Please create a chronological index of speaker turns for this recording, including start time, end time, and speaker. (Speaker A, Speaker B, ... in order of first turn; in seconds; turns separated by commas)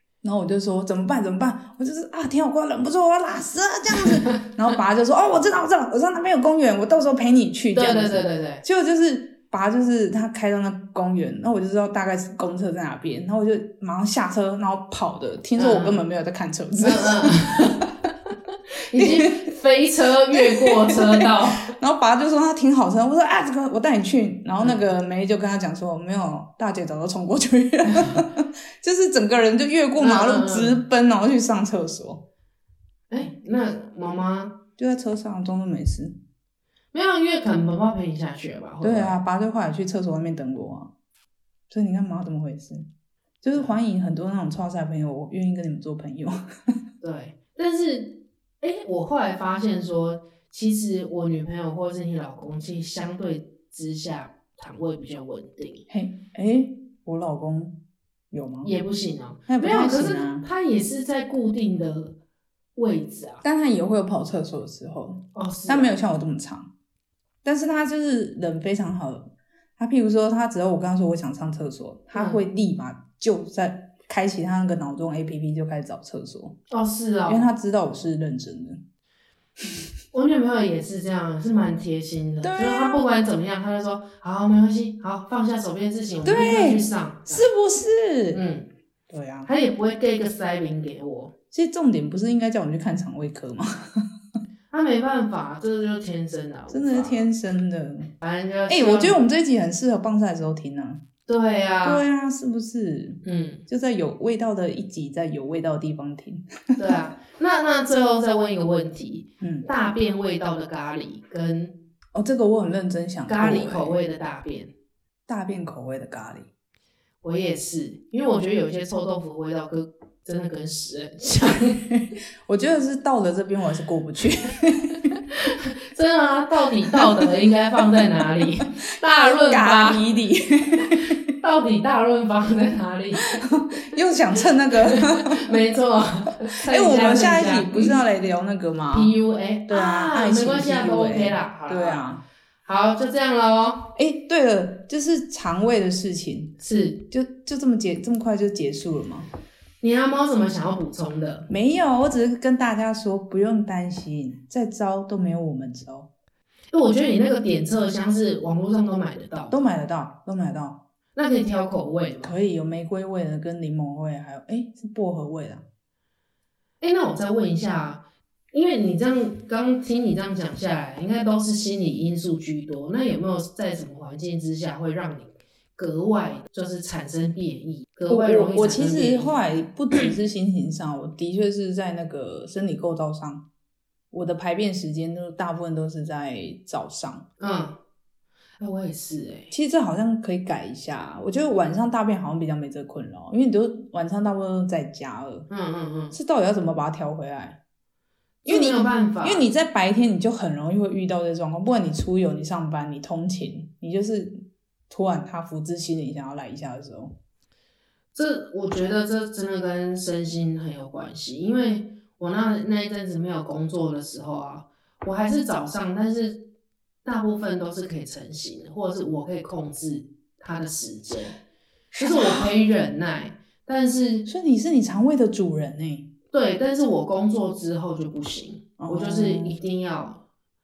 Speaker A: 0.2-17.8, Speaker B: 3.9-4.4, Speaker B: 7.7-8.6, Speaker B: 15.6-16.0, Speaker B: 16.8-17.9, Speaker B: 18.9-21.7, Speaker A: 18.9-19.5, Speaker A: 20.3-32.2, Speaker B: 27.9-28.1, Speaker B: 30.0-30.8, Speaker B: 33.1-34.5, Speaker A: 34.8-36.2, Speaker B: 36.9-39.1, Speaker A: 38.8-40.9, Speaker A: 41.7-42.9, Speaker A: 43.4-46.4, Speaker B: 47.0-55.8, Speaker A: 55.9-57.8, Speaker A: 58.3-58.7, Speaker B: 58.6-62.1, Speaker A: 59.5-60.5, Speaker B: 62.7-63.4, Speaker A: 63.4-66.7, Speaker B: 65.3-66.0, Speaker A: 67.4-76.6, Speaker B: 72.1-72.4, Speaker B: 76.7-77.5, Speaker A: 77.3-78.8, Speaker B: 80.1-87.5, Speaker A: 82.4-83.0, Speaker A: 86.2-88.4, Speaker B: 88.3-88.7, Speaker A: 89.1-89.5, Speaker B: 89.5-91.3, Speaker A: 91.5-94.0, Speaker B: 94.7-97.3, Speaker A: 96.7-98.1, Speaker B: 98.2-99.2, Speaker A: 98.7-101.0, Speaker B: 101.3-102.0, Speaker A: 101.8-106.9, Speaker B: 103.2-103.6, Speaker B: 106.8-111.7, Speaker A: 109.4-109.7, Speaker A: 112.1-114.0, Speaker B: 113.3-114.7, Speaker A: 115.3-116.5, Speaker B: 117.2-121.8, Speaker A: 121.8-125.0, Speaker B: 125.3-130.0, Speaker A: 129.0-131.1, Speaker B: 130.8-133.7, Speaker A: 133.5-135.4, Speaker B: 134.8-138.0, Speaker A: 136.7-139.1, Speaker B: 138.9-142.1, Speaker A: 139.7-142.2, Speaker B: 142.6-143.9, Speaker A: 143.9-146.6, Speaker B: 146.6-147.0, Speaker A: 147.1-149.3, Speaker B: 149.8-151.5, Speaker A: 151.5-156.1, Speaker B: 156.7-159.6, Speaker A: 159.5-160.8, Speaker B: 161.2-162.3, Speaker A: 162.2-165.6, Speaker B: 166.8-168.0, Speaker B: 168.5-179.3, Speaker A: 178.1-183.4, Speaker A: 184.1-187.2, Speaker B: 187.4-187.8, Speaker B: 188.6-189.5, Speaker A: 189.5-195.5, Speaker B: 195.5-196.2, Speaker A: 196.1-197.6, Speaker B: 198.4-199.5, Speaker A: 198.4-207.1, Speaker B: 208.1-216.4, Speaker B: 217.0-221.4, Speaker A: 221.9-222.5, Speaker B: 222.0-224.2, Speaker A: 224.2-226.1, Speaker B: 226.3-230.2, Speaker A: 228.8-229.6